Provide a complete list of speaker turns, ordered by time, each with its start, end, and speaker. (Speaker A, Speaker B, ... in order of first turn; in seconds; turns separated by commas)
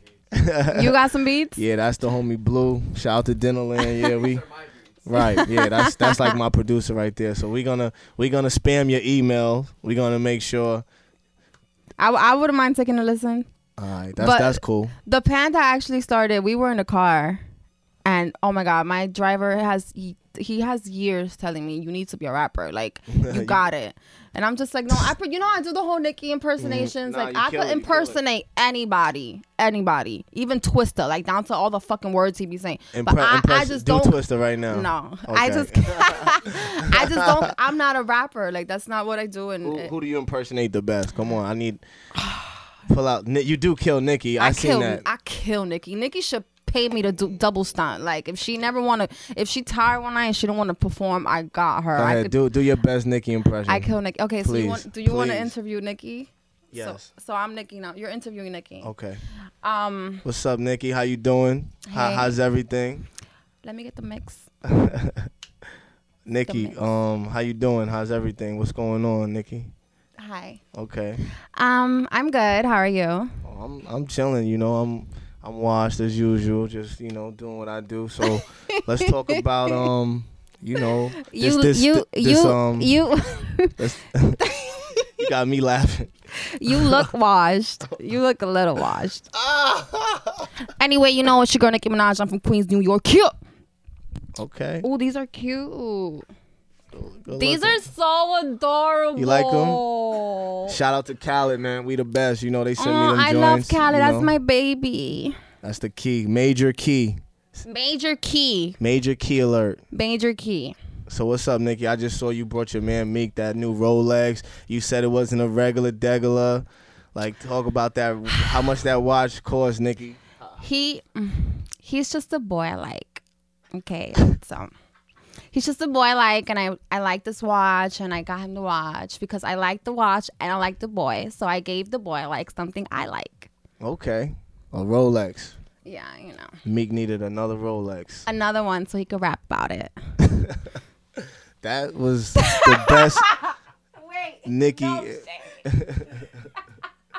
Speaker A: 0.3-10.8, Speaker B: 0.7-1.6, Speaker B: 12.0-13.5, Speaker A: 13.8-14.9, Speaker B: 14.2-17.4, Speaker B: 18.1-34.1, Speaker A: 23.1-23.6, Speaker A: 26.6-28.2, Speaker A: 32.9-37.6, Speaker B: 34.7-39.9, Speaker A: 39.6-41.8, Speaker A: 42.9-45.0, Speaker B: 44.4-52.3, Speaker A: 52.0-55.5, Speaker B: 53.7-58.9, Speaker A: 56.7-57.1, Speaker A: 58.8-59.2, Speaker B: 59.6-60.2, Speaker A: 60.2-63.1, Speaker B: 61.9-62.3, Speaker B: 63.6-64.4, Speaker A: 64.7-65.3, Speaker A: 66.2-69.7, Speaker B: 70.2-70.6, Speaker A: 70.7-71.2, Speaker B: 71.6-73.3, Speaker A: 73.4-83.1, Speaker B: 81.3-83.7, Speaker A: 83.8-84.4, Speaker A: 85.2-86.1, Speaker B: 86.6-89.2, Speaker A: 86.7-87.1, Speaker A: 89.3-90.5, Speaker B: 90.8-93.3, Speaker A: 94.4-94.9, Speaker B: 94.8-96.2, Speaker A: 96.9-97.8, Speaker B: 97.4-100.7, Speaker A: 99.2-99.8, Speaker A: 100.7-104.3, Speaker B: 102.8-105.4, Speaker A: 105.6-107.2, Speaker B: 107.7-108.8, Speaker A: 108.8-109.8, Speaker B: 109.9-110.8, Speaker A: 111.1-120.2, Speaker B: 120.6-123.2, Speaker B: 123.7-124.7, Speaker B: 125.5-133.5, Speaker A: 133.8-135.6, Speaker B: 135.8-136.6, Speaker A: 136.6-138.3, Speaker B: 138.3-139.9, Speaker A: 140.2-143.3, Speaker B: 144.0-145.4, Speaker A: 144.4-146.3